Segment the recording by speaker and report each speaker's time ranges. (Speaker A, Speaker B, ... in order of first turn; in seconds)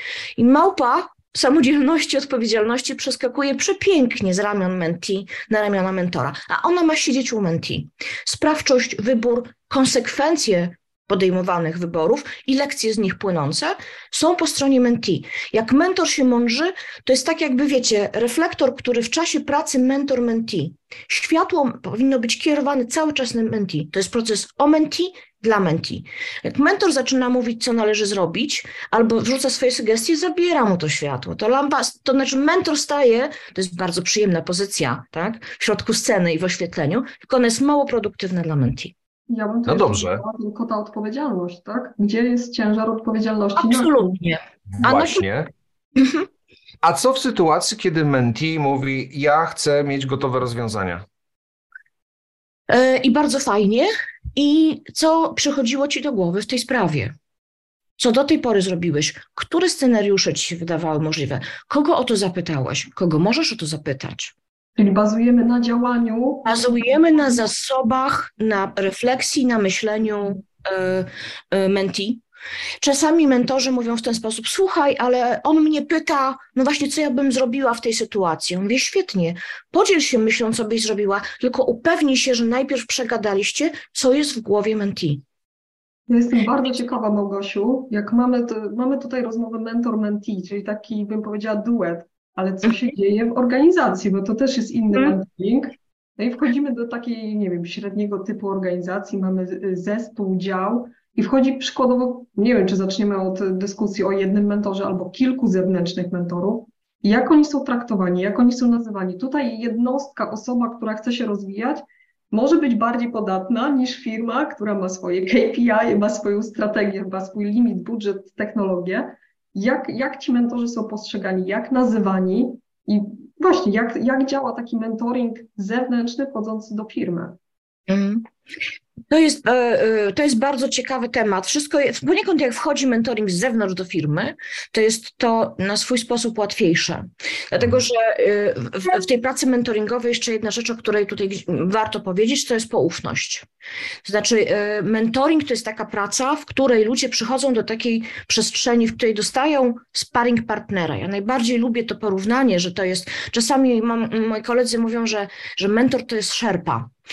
Speaker A: 0.4-38.9, 43.6-45.2, 46.0-46.2, 52.7-57.1, 58.0-64.3, 66.5-72.2, 72.8-85.2, 127.9-128.3, 129.1-143.5, 144.0-156.9
Speaker B: 39.3-44.2, 64.8-66.6, 86.1-127.4
Speaker C: 39.7-40.2, 44.8-45.5, 46.8-51.0